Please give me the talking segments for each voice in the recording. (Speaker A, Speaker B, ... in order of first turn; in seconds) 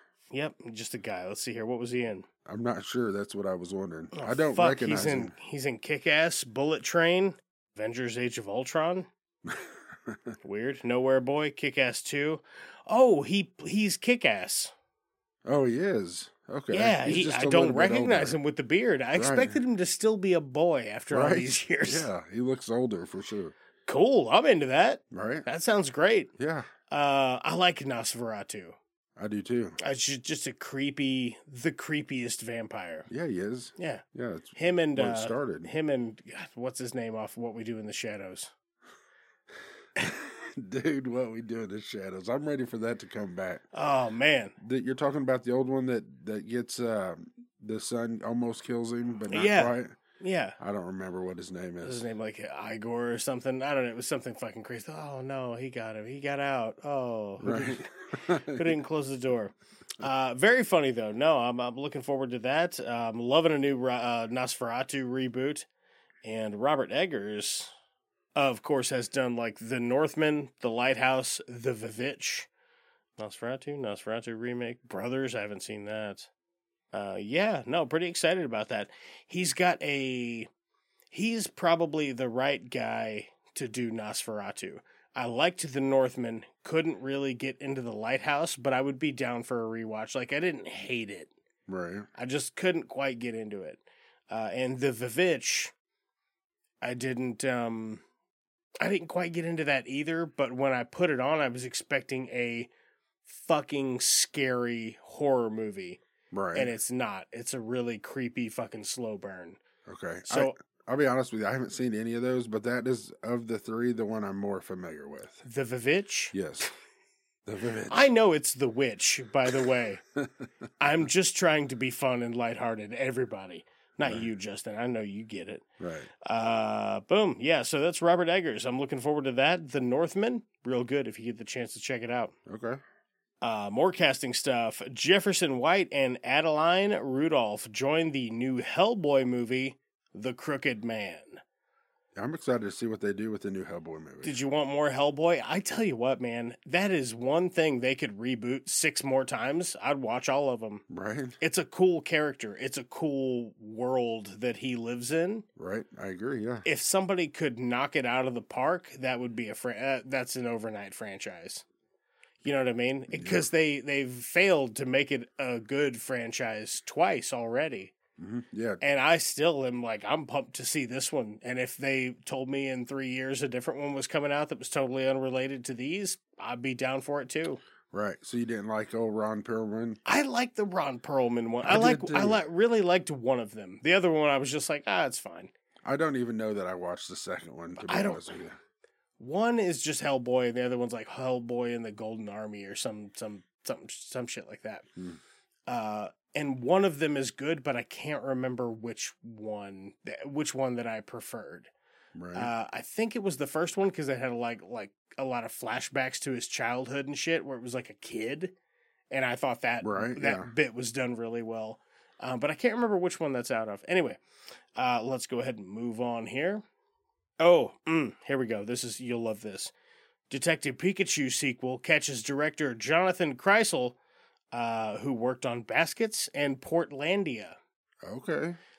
Speaker A: 0.3-2.3, 4.1-9.1, 10.4-14.7, 16.7-22.1, 23.9-26.3, 26.9-28.8, 29.8-33.1, 33.8-34.0, 34.5-38.5, 43.7-44.5, 49.3-50.6, 51.8-65.7, 66.2-67.7, 68.3-72.5, 73.2-76.3, 76.9-80.5, 81.1-91.3, 92.2-95.7, 96.8-98.0, 98.8-102.7, 103.2-106.0, 106.5-109.6, 110.2-110.5, 115.4-116.3, 117.9-120.0, 120.8-125.6, 126.2-132.3, 133.4-141.4, 144.2-150.8, 151.4-155.4, 156.7-161.6, 162.4-167.9, 168.8-177.6, 180.0-185.5, 187.8-188.2, 189.2-194.8, 195.7-201.7, 202.3-208.5, 209.1-214.2, 214.8-216.6, 217.4-219.7, 220.3-224.0, 224.5-227.6
Speaker B: 2.5-5.3, 9.4-10.2, 15.4-18.4, 19.1-19.6, 21.1-23.5, 25.1-25.4, 26.4-26.7, 29.2-29.8, 33.1-35.7, 40.0-43.6, 44.6-49.9, 50.6-52.0, 57.4-58.7, 91.7-92.1, 106.3-106.7, 109.8-115.4, 116.3-116.7, 117.5-118.1, 125.8-126.1, 132.5-132.8, 142.2-144.4, 150.9-151.4, 155.6-156.7, 163.1-163.5, 168.2-168.8, 177.9-180.0, 181.6-182.4, 185.8-188.6, 202.1-202.5, 209.8-210.5, 228.0-228.6